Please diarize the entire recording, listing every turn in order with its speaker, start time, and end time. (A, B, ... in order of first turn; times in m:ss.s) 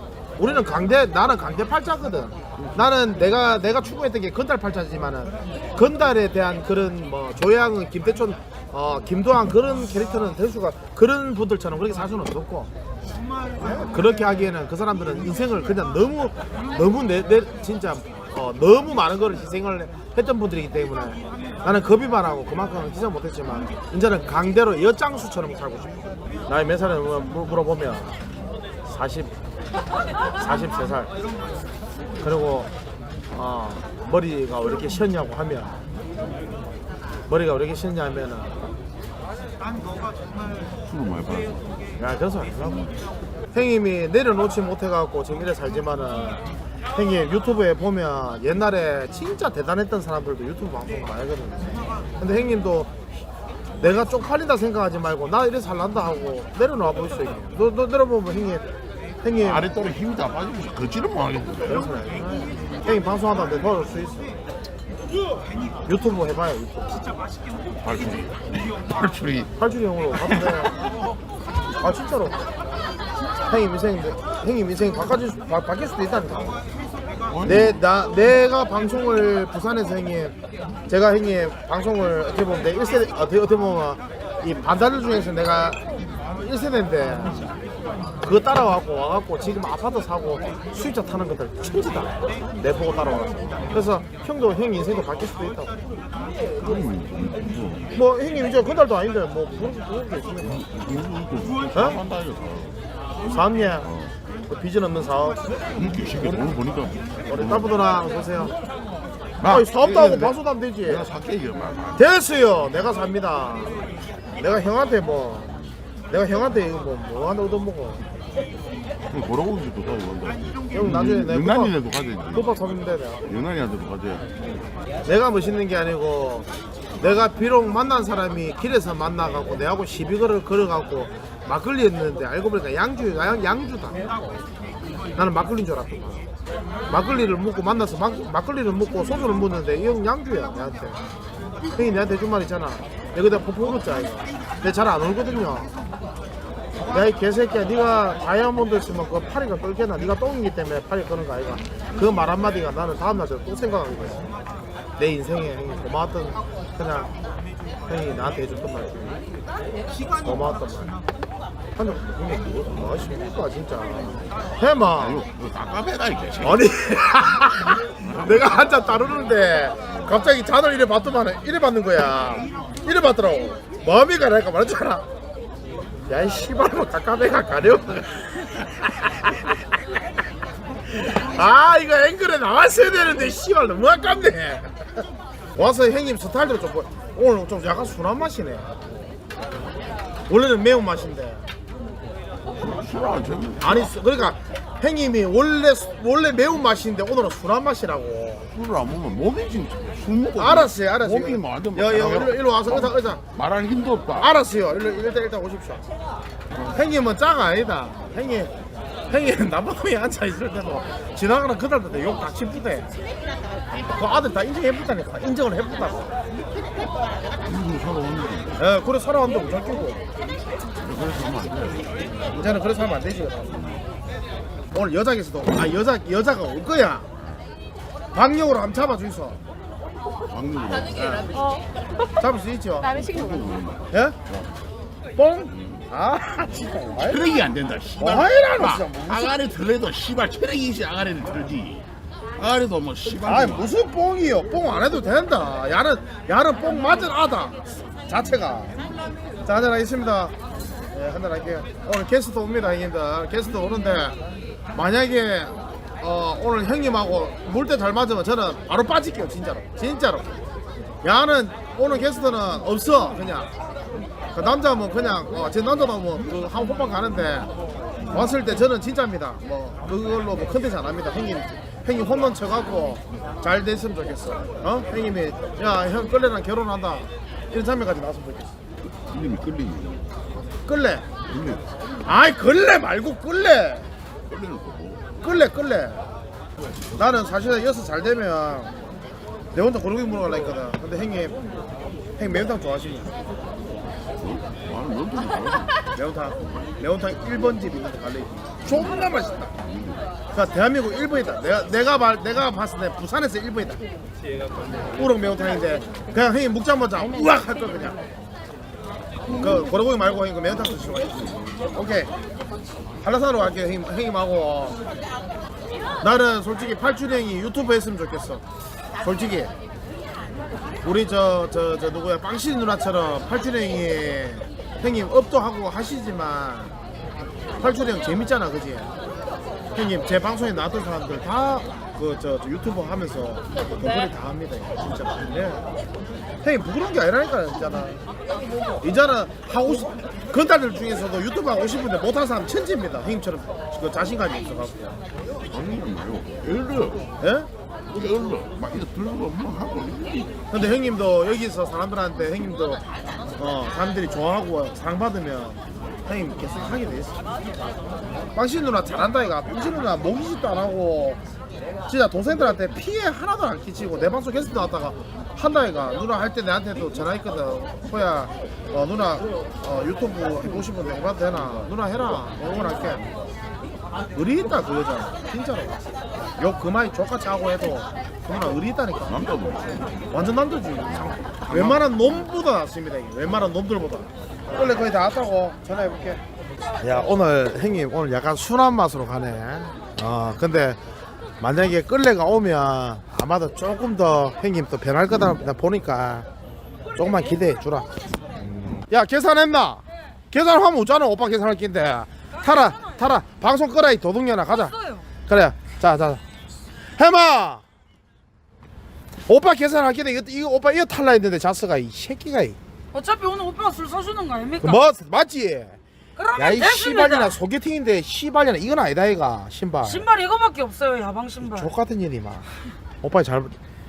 0:00.4-0:12.7 A
0:13.6-0:28.1 A
0:28.8-0:29.3 A
0:30.4-0:31.1 A
0:32.2-0:32.7 A
0:33.3-0:35.8 A
0:37.3-0:38.7 A
0:40.8-0:41.8 B
0:42.0-0:42.9 A
0:43.5-0:46.4 A
0:46.9-0:52.9 A
0:53.8-0:58.6 A
0:59.2-0:59.7 A
0:59.4-1:01.8 B
1:01.6-1:04.4 A
1:05.8-1:07.1 A
1:07.8-1:09.5 B
1:09.6-1:10.7 A
1:11.8-1:12.4 A
1:13.4-1:16.6 A
1:17.3-1:17.8 B
1:17.4-1:20.3 A
1:20.9-1:25.8 A
1:26.3-1:27.4 A
1:28.2-1:35.7 A
1:36.6-1:37.9 B
1:37.9-1:40.6 A
1:40.4-1:42.8 B
1:41.7-1:42.0 A
1:43.3-1:43.9 A
1:43.8-1:44.1 B
1:44.5-1:45.4 A
1:45.7-1:47.7 B
1:46.2-1:46.4 A
1:47.3-1:48.5 A
1:49.4-1:52.1 B
1:49.4-1:51.1 A
1:52.0-1:55.5 A
1:56.1-1:58.0 A
1:59.1-2:02.5 B
2:00.7-2:01.8 A
2:02.3-2:03.2 A
2:03.2-2:04.3 B
2:05.0-2:06.5 A
2:07.0-2:14.0 A
2:15.2-2:16.2 A
2:16.9-2:21.0 A
2:21.7-2:25.7 A
2:26.9-2:34.3 A
2:35.0-2:37.1 A
2:37.9-2:39.2 A
2:40.2-2:41.0 A
2:41.8-2:45.2 A
2:45.0-2:46.7 B
2:46.4-2:55.0 A
2:48.0-2:48.6 B
2:56.1-2:59.5 A
3:00.9-3:05.0 A
3:05.5-3:08.7 A
3:10.3-3:11.5 A
3:12.5-3:13.9 B
3:13.6-3:18.5 A
3:18.5-3:24.3 B
3:20.4-3:23.2 A
3:24.2-3:25.8 A
3:26.7-3:28.5 A
3:29.1-3:32.9 A
3:33.8-3:36.1 A
3:37.4-3:38.6 B
3:38.6-3:40.0 A
3:40.8-3:42.4 B
3:42.3-3:43.5 A
3:43.5-3:43.8 B
3:44.7-3:47.1 A
3:48.1-3:49.4 A
3:50.3-3:51.2 B
3:51.0-3:51.3 A
3:51.3-3:51.6 C
3:52.2-3:52.9 A
3:52.9-3:54.5 B
3:53.9-3:54.2 A
3:55.1-3:57.2 A
3:55.5-3:55.8 B
3:57.0-4:01.8 B
3:58.0-3:59.4 A
4:02.4-4:03.7 B
4:03.2-4:08.7 A
4:09.4-4:10.3 A
4:10.9-4:14.2 A
4:14.7-4:20.4 A
4:21.0-4:23.5 A
4:24.3-4:27.5 A
4:28.1-4:38.5 A
4:39.0-4:40.1 B
4:40.6-4:41.0 A
4:41.3-4:41.6 B
4:42.0-4:43.9 A
4:44.3-4:45.0 B
4:45.2-4:46.0 A
4:47.0-4:48.7 A
4:49.5-4:51.4 A
4:52.2-4:53.1 A
4:54.2-4:55.8 B
4:55.9-4:59.5 A
4:59.6-5:00.1 B
5:00.3-5:03.8 A
5:04.9-5:08.0 A
5:09.3-5:11.2 A
5:11.7-5:12.1 A
5:13.0-5:14.8 A
5:16.0-5:18.4 A
5:19.0-5:19.5 A
5:20.8-5:26.8 A
5:27.6-5:28.9 A
5:29.7-5:35.6 A
5:36.4-5:38.0 A
5:38.8-5:45.0 A
5:45.5-5:47.1 B
5:47.2-5:47.5 A
5:47.9-5:50.4 B
5:50.5-5:52.8 A
5:53.4-5:57.2 A
5:58.3-6:01.2 A
6:01.9-6:13.0 A
6:14.1-6:15.8 A
6:16.4-6:19.1 A
6:19.1-6:20.0 B
6:20.1-6:26.2 A
6:20.9-6:22.0 B
6:26.8-6:30.8 A
6:31.4-6:36.3 A
6:37.0-6:44.8 A
6:42.4-6:42.9 C
6:44.6-6:45.0 C
6:45.3-6:46.2 A
6:47.0-6:47.6 A
6:49.3-6:52.6 A
6:52.9-6:54.8 C
6:54.6-6:55.8 A
6:56.2-6:57.3 C
6:56.4-7:00.0 A
6:59.8-7:01.7 C
7:01.4-7:02.4 A
7:03.0-7:03.6 A